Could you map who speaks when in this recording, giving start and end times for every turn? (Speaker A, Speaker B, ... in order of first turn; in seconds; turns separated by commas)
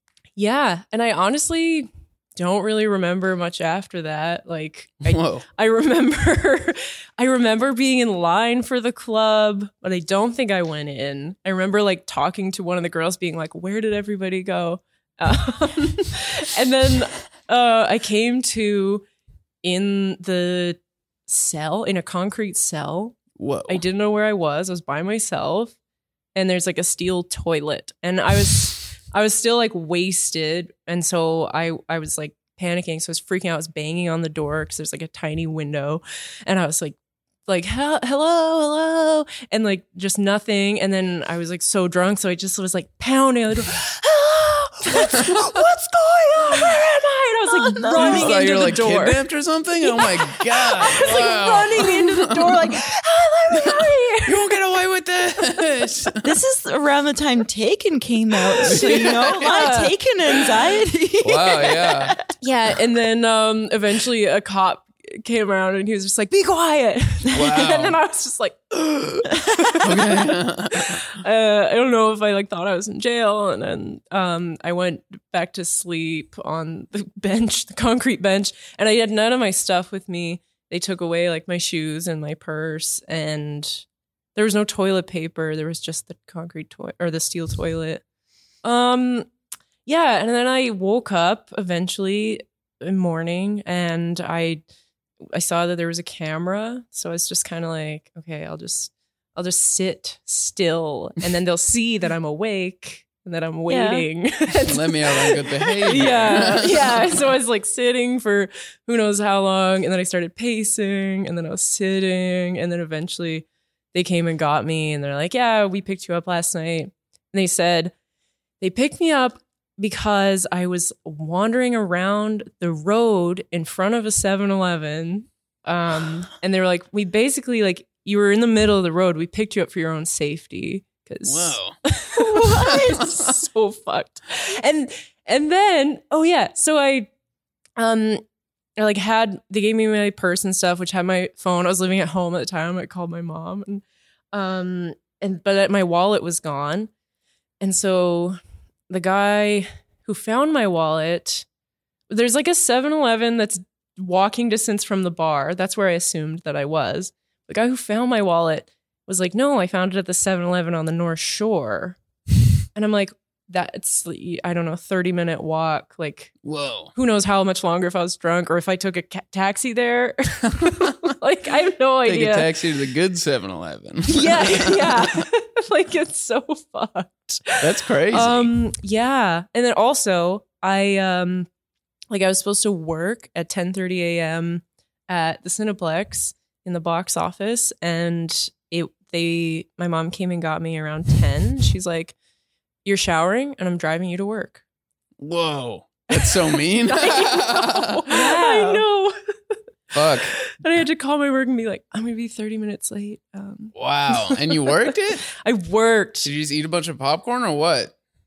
Speaker A: 0.4-19.1, Speaker B: 5.0-5.4, Speaker A: 19.6-25.8, Speaker B: 23.4-23.8, Speaker A: 26.4-49.2, Speaker B: 45.1-45.6, Speaker C: 47.5-48.5, Speaker B: 47.9-52.6, Speaker A: 50.6-54.4, Speaker C: 51.0-52.8, Speaker B: 54.3-56.2, Speaker C: 56.2-62.2, Speaker B: 58.6-59.7, Speaker A: 58.7-60.0, Speaker B: 61.2-62.2, Speaker A: 62.4-70.0, Speaker B: 67.3-68.0, Speaker B: 69.8-71.0, Speaker A: 70.8-88.0, Speaker A: 88.6-89.3, Speaker A: 89.8-94.6, Speaker A: 95.3-117.9, Speaker C: 103.7-104.1, Speaker B: 104.6-107.3, Speaker A: 118.6-137.1, Speaker B: 131.2-131.8, Speaker C: 132.2-133.0, Speaker B: 132.6-133.3, Speaker A: 137.8-138.2, Speaker A: 138.8-146.9, Speaker A: 147.6-148.4, Speaker A: 148.9-151.5, Speaker A: 152.1-162.0, Speaker A: 162.8-166.3, Speaker B: 166.4-166.9, Speaker A: 166.9-172.5, Speaker B: 170.6-171.1, Speaker B: 172.1-175.2, Speaker A: 174.1-181.5, Speaker B: 177.6-178.5, Speaker A: 182.1-192.2, Speaker A: 192.8-194.6, Speaker B: 195.2-198.1, Speaker A: 196.1-206.3, Speaker C: 198.1-198.8, Speaker B: 199.9-200.3, Speaker B: 203.8-205.2, Speaker B: 206.2-207.9